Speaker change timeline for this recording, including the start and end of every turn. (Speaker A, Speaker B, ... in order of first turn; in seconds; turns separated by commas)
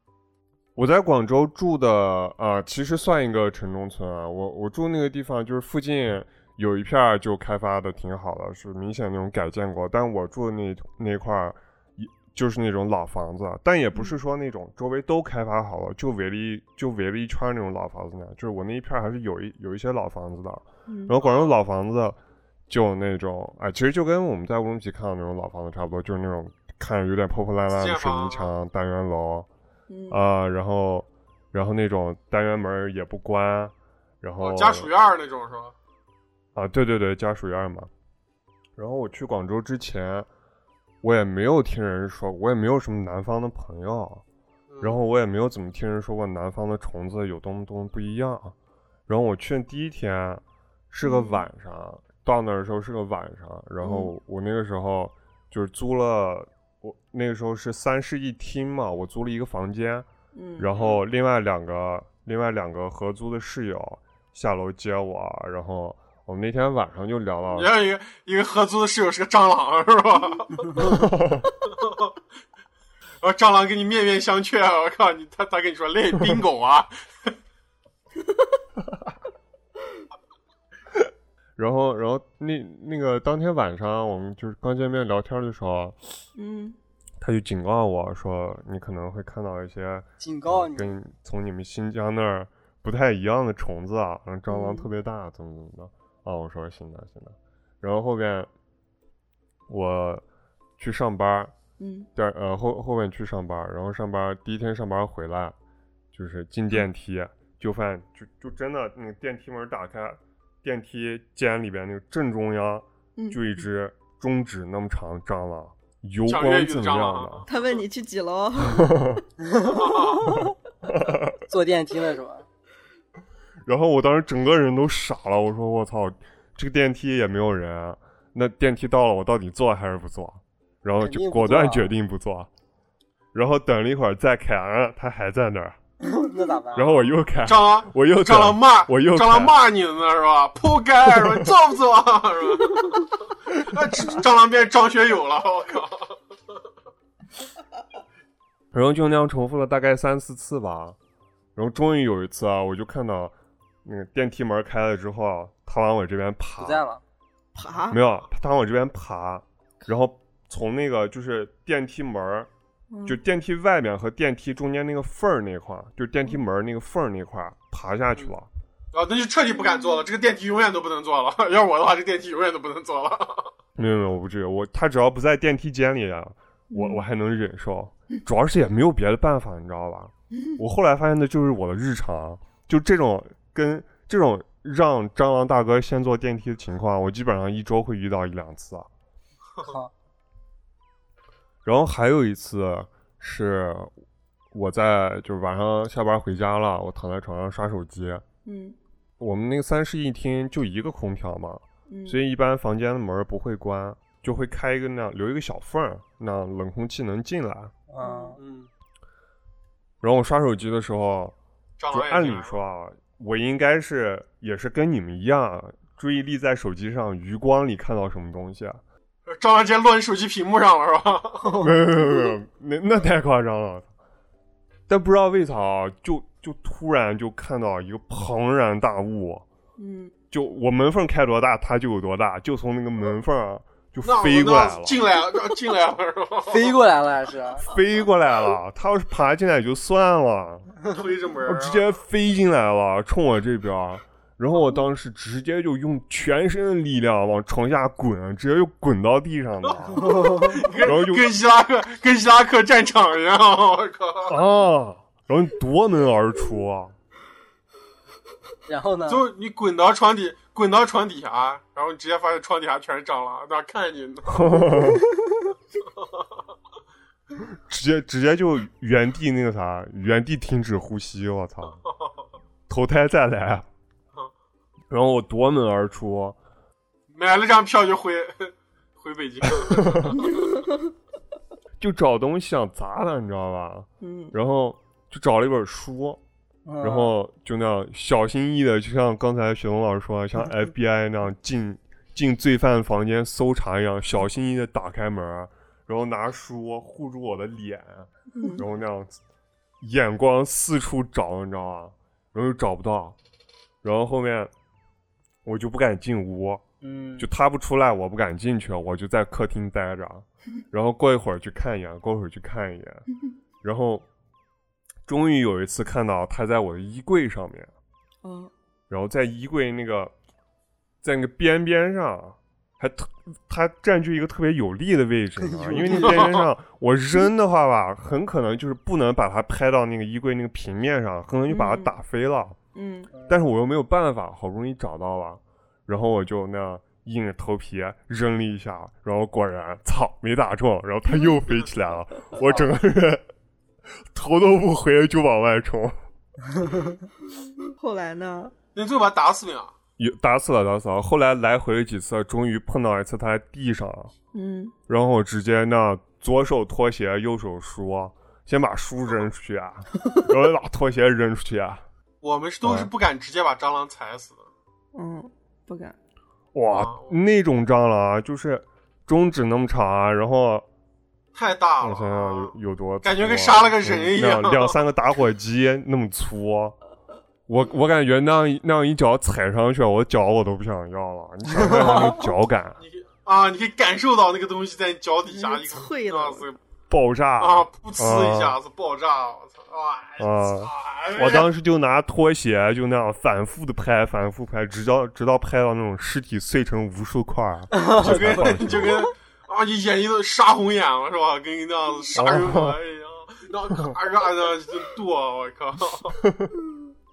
Speaker A: 0.8-22.2, Speaker B: 20.9-21.1, Speaker C: 21.2-21.5, Speaker A: 22.7-29.5, Speaker C: 27.7-28.5, Speaker B: 29.9-30.2, Speaker A: 30.1-34.9, Speaker C: 34.4-35.7, Speaker A: 36.5-37.9, Speaker A: 38.8-40.3, Speaker A: 41.0-44.2, Speaker C: 44.7-45.0, Speaker A: 44.8-48.5, Speaker A: 49.1-60.1, Speaker B: 51.0-51.4, Speaker B: 53.8-54.1, Speaker B: 60.3-60.7, Speaker A: 60.6-67.7, Speaker C: 60.7-61.0, Speaker C: 67.5-70.9, Speaker A: 70.8-71.5, Speaker C: 71.7-72.1, Speaker C: 73.2-77.3, Speaker A: 81.6-86.0, Speaker B: 86.3-86.8, Speaker A: 87.2-98.5, Speaker D: 90.2-91.0, Speaker B: 94.5-94.9, Speaker A: 99.7-100.2, Speaker A: 100.8-101.5, Speaker B: 101.8-102.1, Speaker A: 102.2-105.5, Speaker A: 106.1-117.5, Speaker C: 116.3-117.6, Speaker B: 117.5-119.2, Speaker A: 118.7-119.2, Speaker D: 119.4-120.5, Speaker C: 119.7-120.2, Speaker A: 120.8-121.3, Speaker D: 121.5-122.5, Speaker A: 123.7-132.5, Speaker D: 131.0-131.9, Speaker A: 133.3-135.8, Speaker D: 136.0-136.9, Speaker A: 136.7-139.6, Speaker C: 136.8-146.2, Speaker A: 148.7-151.0, Speaker A: 151.5-153.3, Speaker A: 153.8-156.8, Speaker D: 156.6-157.0, Speaker B: 157.5-158.0, Speaker A: 157.9-162.5, Speaker B: 162.9-163.2, Speaker A: 163.0-168.5, Speaker C: 168.9-173.5, Speaker B: 169.5-170.0, Speaker A: 173.8-188.9, Speaker B: 176.7-177.0, Speaker D: 189.6-189.9, Speaker A: 191.6-193.9, Speaker A: 194.5-198.2, Speaker B: 198.4-198.8, Speaker A: 199.2-207.7, Speaker B: 201.9-202.2, Speaker D: 207.9-208.4, Speaker B: 208.0-208.4, Speaker C: 208.4-208.7, Speaker A: 210.0-211.3, Speaker C: 211.8-212.6, Speaker A: 211.9-218.8, Speaker C: 219.2-221.6, Speaker A: 221.6-223.9, Speaker A: 224.9-229.4, Speaker B: 229.8-230.1, Speaker A: 230.3-235.1, Speaker C: 234.0-236.8, Speaker D: 236.5-237.7, Speaker A: 237.6-240.7, Speaker C: 240.9-241.9, Speaker A: 241.4-250.1, Speaker D: 250.0-250.6, Speaker C: 250.5-254.3, Speaker A: 250.7-251.3, Speaker A: 254.3-256.9, Speaker D: 258.7-259.2, Speaker C: 259.1-264.6, Speaker A: 264.3-265.0, Speaker A: 267.7-271.8, Speaker A: 272.7-273.6, Speaker A: 274.9-276.4, Speaker C: 277.1-280.6, Speaker A: 279.6-280.1, Speaker A: 281.8-286.2, Speaker B: 284.0-284.3, Speaker D: 286.6-287.1, Speaker A: 286.8-299.2, Speaker A: 299.8-303.2, Speaker A: 303.8-304.5, Speaker A: 305.4-306.6, Speaker D: 306.8-307.3, Speaker A: 307.2-313.0, Speaker A: 313.6-314.1, Speaker A: 315.1-317.7, Speaker B: 318.2-318.5, Speaker A: 318.9-320.1, Speaker A: 321.0-332.6, Speaker D: 325.4-326.4, Speaker C: 326.0-326.4, Speaker B: 331.5-331.9, Speaker B: 332.7-333.1, Speaker A: 333.3-343.2, Speaker D: 342.4-342.7, Speaker A: 344.1-345.9, Speaker B: 347.6-348.5, Speaker C: 348.7-349.7, Speaker A: 350.0-354.1, Speaker B: 354.3-354.7, Speaker A: 354.9-361.8, Speaker C: 362.2-364.5, Speaker A: 362.6-362.9, Speaker B: 364.9-365.9, Speaker A: 366.5-370.6, Speaker C: 366.7-367.2, Speaker C: 371.3-374.8, Speaker A: 371.8-376.8, Speaker A: 377.5-382.8, Speaker D: 381.6-382.2, Speaker C: 382.8-386.6, Speaker B: 385.2-386.5, Speaker A: 386.9-388.6, Speaker C: 387.4-391.5, Speaker A: 390.2-399.1, Speaker D: 397.7-399.1, Speaker C: 398.0-406.2, Speaker A: 402.1-402.8, Speaker A: 406.2-406.5